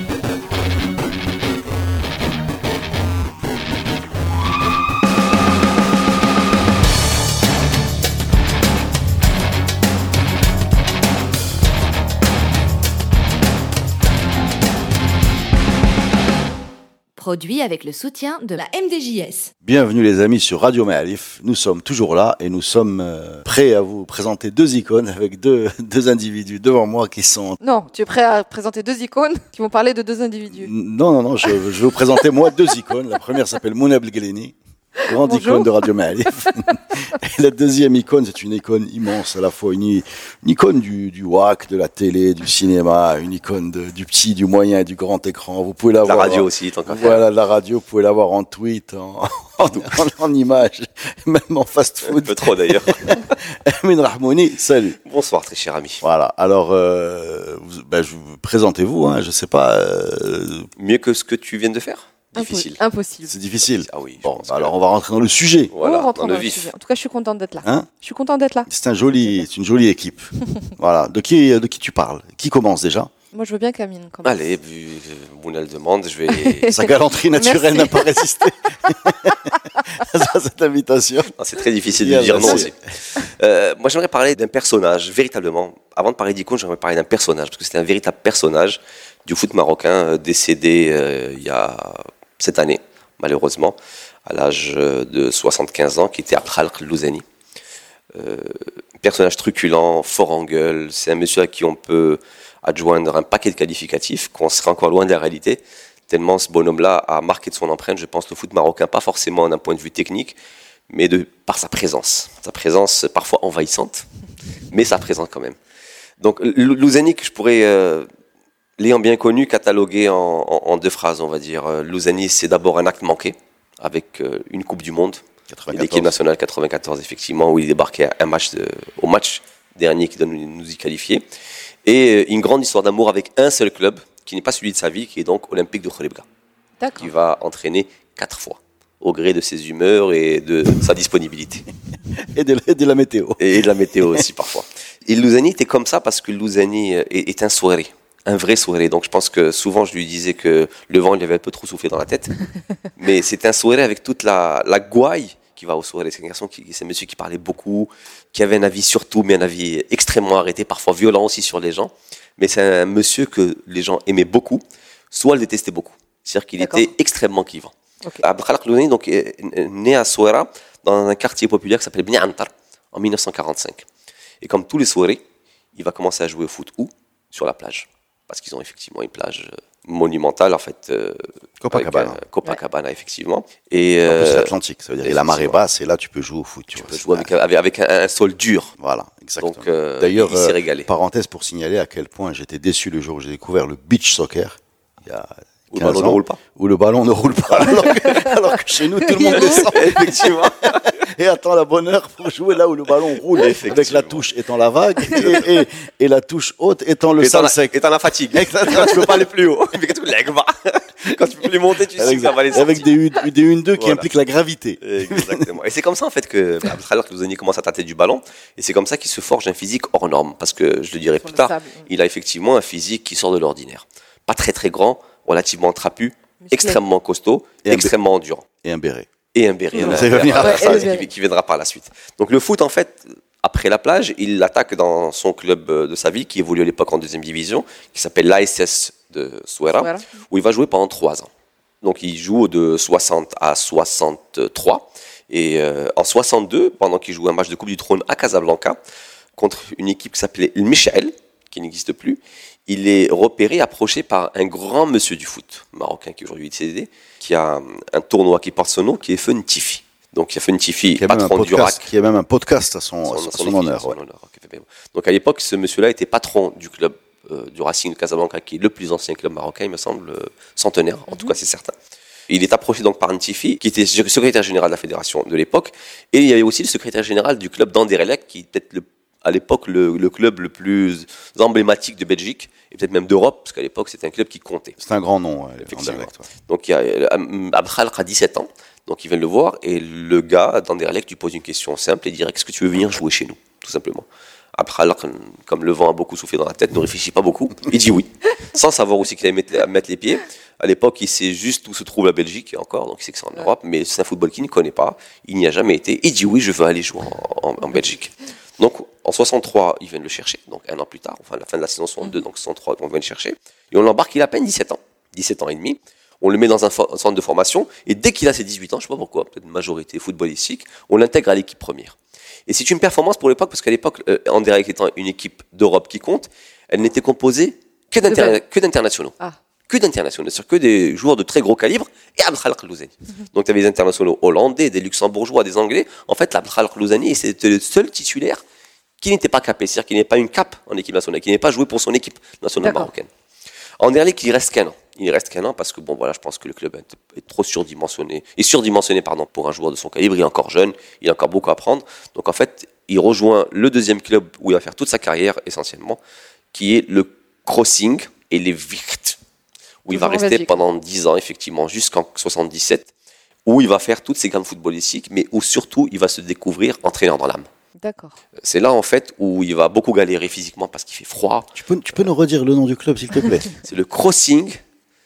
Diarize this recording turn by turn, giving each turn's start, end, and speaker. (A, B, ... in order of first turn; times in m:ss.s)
0:17.2-0:19.5 A
0:19.6-0:27.6 B
0:27.6-0:30.7 C
0:30.5-0:34.6 B
0:35.1-0:35.8 C
0:35.1-0:55.0 B
0:46.0-0:47.2 D
0:49.6-0:50.0 D
0:52.0-0:53.3 D
0:55.0-0:56.0 D
0:56.0-1:00.7 B
1:00.8-1:02.8 D
1:02.4-1:03.4 C
1:03.3-1:05.8 B
1:03.6-1:04.7 D
1:05.7-1:06.7 D
1:05.8-1:08.7 C
1:07.6-1:07.9 B
1:08.7-1:13.1 B
1:13.3-1:14.4 C
1:14.2-1:16.7 D
1:16.4-1:19.0 C
1:16.7-1:21.3 B
1:21.4-1:37.2 D
1:21.9-1:22.7 B
1:38.2-1:50.4 D
1:50.9-1:54.1 D
1:54.7-1:55.6 D
1:56.2-1:58.1 D
1:58.8-2:11.2 D
2:05.5-2:06.2 B
2:11.8-2:16.3 D
2:16.8-2:17.1 C
2:17.0-2:21.7 D
2:22.2-2:24.2 B
2:23.4-2:32.4 D
2:33.0-2:53.8 D
2:46.6-2:46.9 C
2:54.4-2:55.2 D
2:55.8-3:05.6 D
3:01.6-3:02.2 B
3:04.1-3:07.3 B
3:06.8-3:08.8 D
3:08.8-3:27.8 B
3:09.4-3:10.9 D
3:15.7-3:16.4 D
3:17.8-3:18.4 C
3:19.1-3:19.7 C
3:19.2-3:21.0 D
3:23.4-3:24.2 D
3:25.1-3:25.5 D
3:27.2-3:32.9 D
3:28.3-3:29.3 B
3:32.0-3:35.5 B
3:33.8-3:34.1 D
3:34.8-3:48.5 D
3:41.2-3:41.8 C
3:46.4-3:46.8 C
3:47.6-3:47.9 B
3:48.6-3:49.1 B
3:49.3-4:01.3 D
3:49.7-3:50.9 B
3:49.8-3:51.1 C
3:59.8-4:00.0 C
4:01.8-4:08.8 D
4:09.4-4:21.8 D
4:20.9-4:24.0 B
4:23.0-4:31.7 D
4:32.3-4:44.8 D
4:44.8-4:46.3 B
4:45.7-5:29.2 D
5:28.1-5:28.4 C
5:29.7-5:38.4 D
5:39.0-5:43.1 D
5:42.6-5:42.9 C
5:43.8-5:56.0 D
5:56.5-5:59.2 D
5:59.8-6:02.9 D
5:59.9-6:00.6 C
6:03.5-6:07.5 D
6:07.8-6:08.2 C
6:08.4-6:11.5 D
6:11.6-6:13.6 B
6:13.6-6:14.6 D